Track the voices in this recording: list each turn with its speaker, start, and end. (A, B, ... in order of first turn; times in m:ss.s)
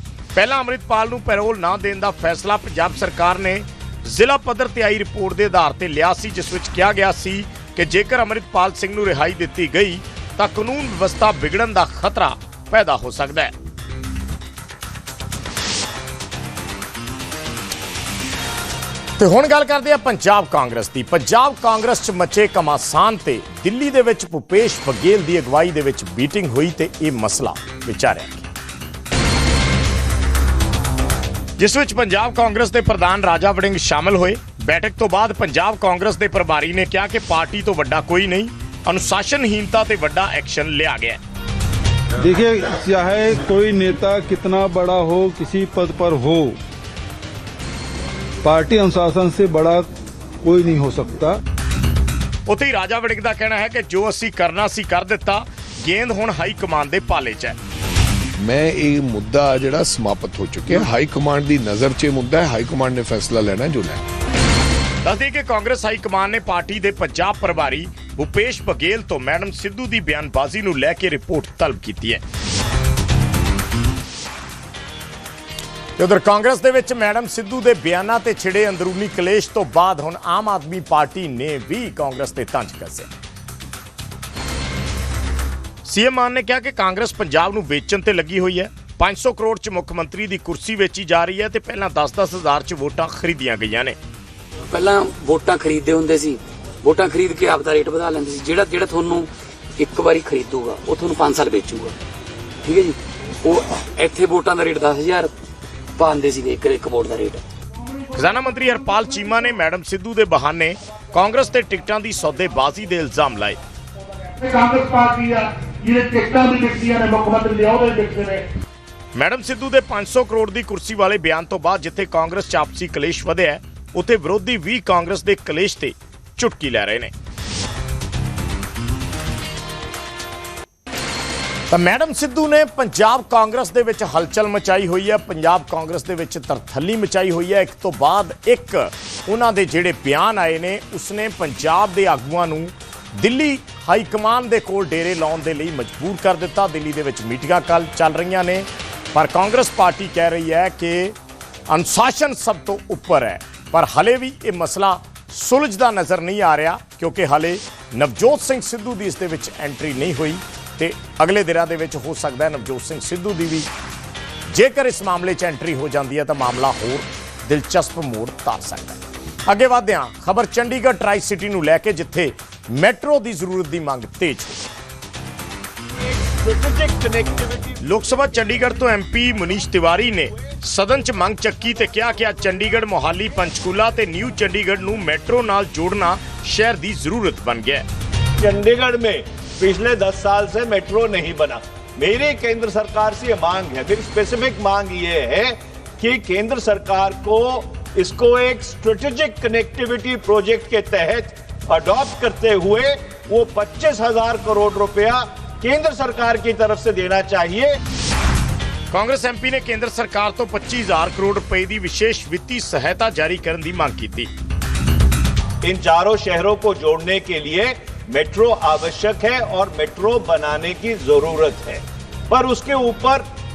0:00.3-0:13.5 A
0:19.2-0:28.5 A
0:31.6-0:41.2 A
0:42.2-0:46.6 B
0:48.4-0:49.9 B
0:50.4-0:51.4 B
0:52.5-0:57.6 A
0:58.4-1:04.0 C
1:05.0-1:12.2 A
1:16.0-1:23.1 A
1:25.8-1:34.0 A
1:34.7-1:41.9 D
1:42.6-1:45.3 D
1:46.0-1:47.4 D
1:48.1-1:53.6 A
1:54.4-1:58.4 E
1:59.2-2:07.1 A
2:11.7-2:31.1 A
2:31.7-2:43.7 A
2:44.5-2:54.7 A
2:56.0-2:57.8 F
2:57.8-3:07.8 A
3:08.4-3:27.8 F
3:28.9-3:34.3 A
3:35.6-3:43.3 F